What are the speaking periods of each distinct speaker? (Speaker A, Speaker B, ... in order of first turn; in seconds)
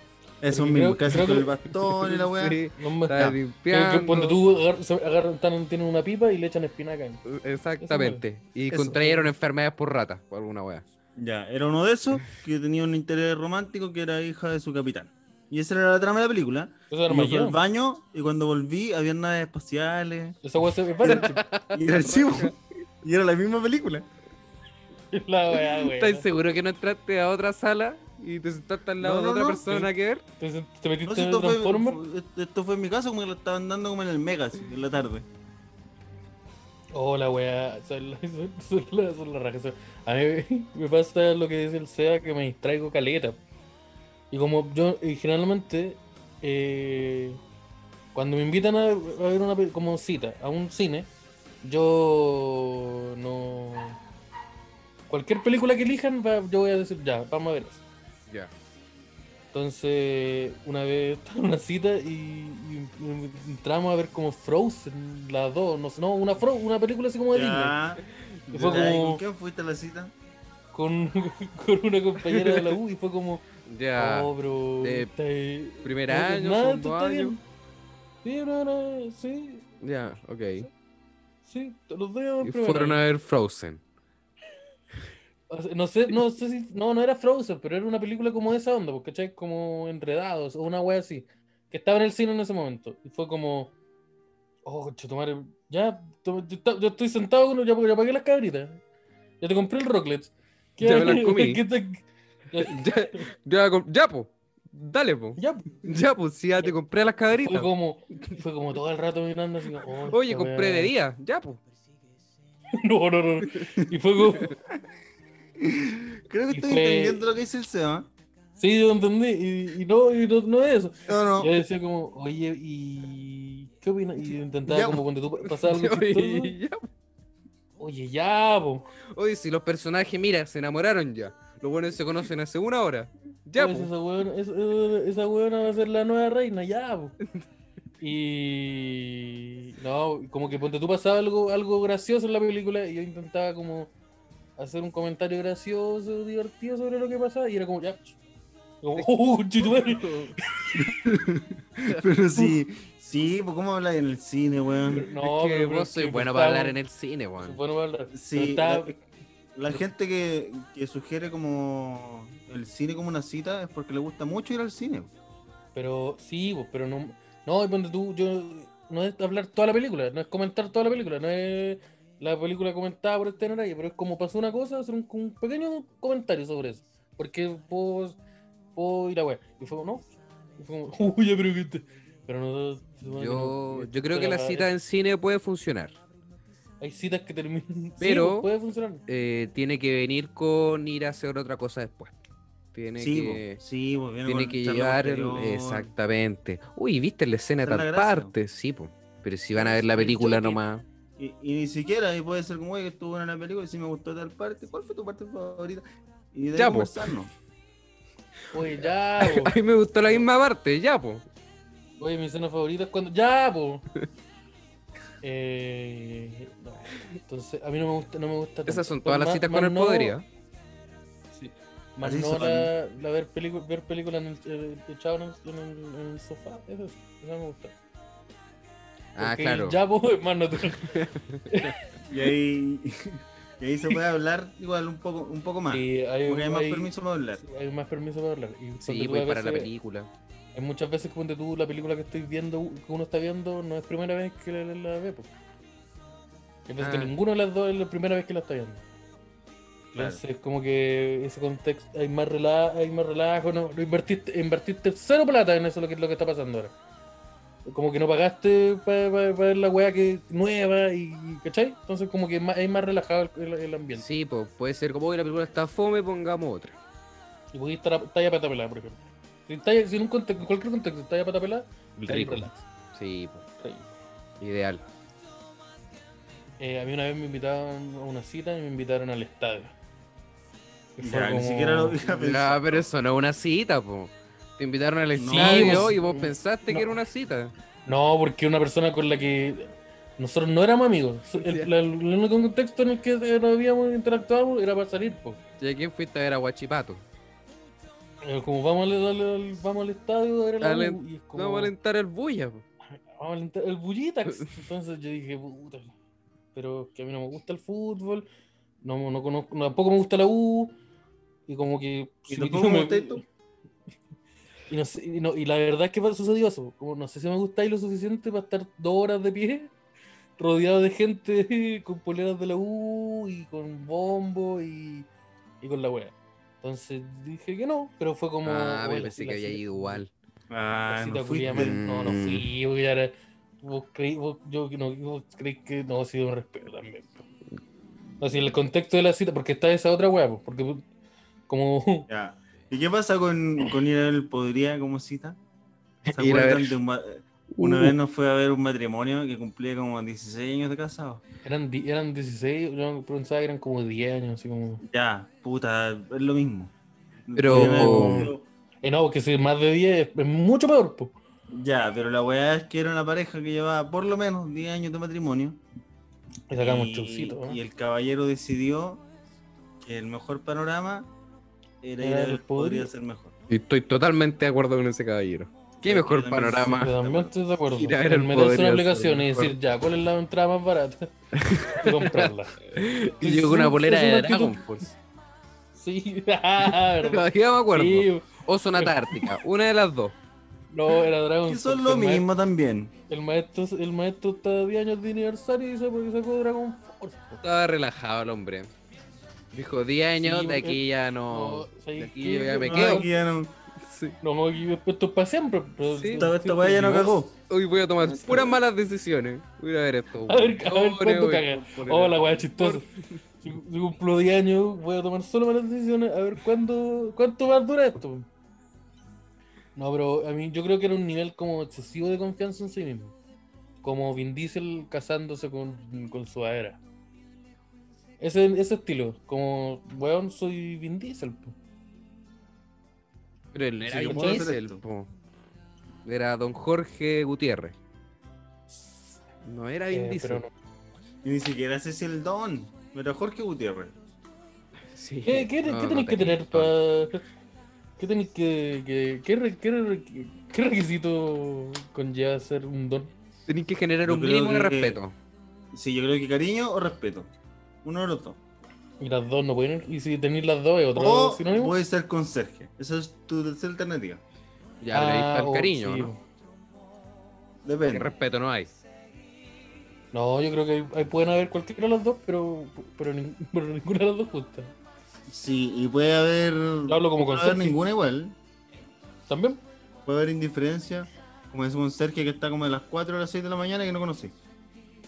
Speaker A: 0.4-2.6, 8.7-9.0, 11.2-20.4, 21.0-24.1, 29.0-29.9, 31.1-35.3, 67.3-70.1, 115.6-118.1, 121.1-121.5, 124.7-125.0, 150.8-155.0, 158.1-159.0, 159.6-165.1, 193.0-195.9, 197.6-198.3, 201.2-207.3, 222.0-222.7, 232.1-237.4, 250.0-250.2, 281.0-282.9, 285.2-286.0, 312.3-313.2, 330.5-331.8, 342.1-345.4, 346.1-351.2, 354.9-356.7, 357.3-358.5, 361.5-365.6, 366.5-369.0, 369.8-371.1, 371.8-373.3, 375.8-377.3, 391.5-392.9, 402.6-403.6, 406.1-407.4, 408.1-408.6, 433.9-434.8, 441.2-444.0, 454.1-455.0, 455.7-457.3, 457.8-458.4, 460.9-464.2, 467.6-468.1, 475.3-478.4, 480.1-484.4
Speaker B: 0.5-1.6, 2.8-7.2, 7.8-8.2, 8.9-9.3, 16.9-17.6, 20.4-21.4, 25.1-26.3, 30.4-32.0, 36.9-43.4, 44.3-47.4, 48.1-51.1, 51.6-54.0, 55.1-57.8, 59.5-67.8, 68.5-69.2, 70.7-73.4, 74.0-77.4, 78.2-79.7, 81.5-83.0, 85.5-93.7, 94.7-98.8, 99.4-103.3, 105.4-105.8, 107.3-110.9, 112.7-114.6, 116.5-117.2, 118.6-126.5, 127.8-128.9, 133.6-137.2, 138.0-143.9, 144.6-148.2, 148.8-150.8, 154.9-156.8, 157.4-159.0, 165.8-178.2, 178.8-184.7, 186.8-189.0, 199.6-200.6, 208.5-209.5, 212.0-213.8, 215.2-220.2, 221.3-227.8, 229.2-231.8, 235.7-239.7, 240.6-245.3, 246.7-248.8, 249.9-256.7, 257.7-264.1, 267.5-272.6, 273.6-273.9, 276.6-279.7, 281.0-282.3, 285.3-286.9, 287.9-295.4, 298.2-301.7, 303.1-305.9, 306.5-308.3, 308.8-310.8, 311.5-313.2, 314.7-319.7, 320.4-325.1, 325.6-330.0, 330.9-337.3, 338.2-340.9, 341.5-342.1, 351.4-354.8, 357.5-361.1, 366.5-367.6, 372.0-372.9, 376.7-381.1, 381.7-382.6, 383.2-384.8, 385.8-389.3, 390.7-392.3, 393.1-397.4, 400.2-403.1, 404.2-407.2, 410.3-412.9, 413.4-418.3, 419.8-423.1, 423.8-426.8, 428.2-431.6, 434.1-434.4, 438.7-439.2, 439.9-440.5, 445.2-447.2, 448.0-453.1, 459.0-461.8, 464.9-466.2, 470.1-474.7, 476.9-477.8, 479.3-479.6
Speaker C: 1.9-4.4, 7.2-10.8, 21.0-22.5, 25.5-30.2, 72.3-72.8, 73.7-75.1, 75.8-77.3, 79.8-80.7, 82.4-83.8, 100.8-101.6, 102.6-107.7, 110.0-111.6, 125.4-126.9, 129.2-133.9, 149.6-150.3, 155.1-157.6, 183.1-186.0, 188.0-188.5, 189.1-192.2, 192.7-193.6, 194.3-200.8, 206.6-207.1, 208.8-211.2, 218.7-220.2, 229.2-229.8, 230.7-231.8, 238.8-240.1, 246.8-247.1, 263.9-266.8, 272.0-273.4, 274.4-274.8, 282.2-287.5, 291.4-291.7, 295.6-297.0, 300.6-302.6, 304.3-304.5, 328.4-330.1, 331.5-332.5, 346.1-346.8, 347.6-347.9, 357.4-358.3, 373.5-376.9, 377.8-379.5, 381.3-384.9, 386.6-390.2, 397.4-398.7, 399.5-403.1, 403.8-404.2, 405.9-406.3, 407.4-412.9, 433.5-435.1, 436.1-437.8, 439.4-440.4, 444.9-446.7, 453.5-455.1, 464.8-466.1, 467.9-468.7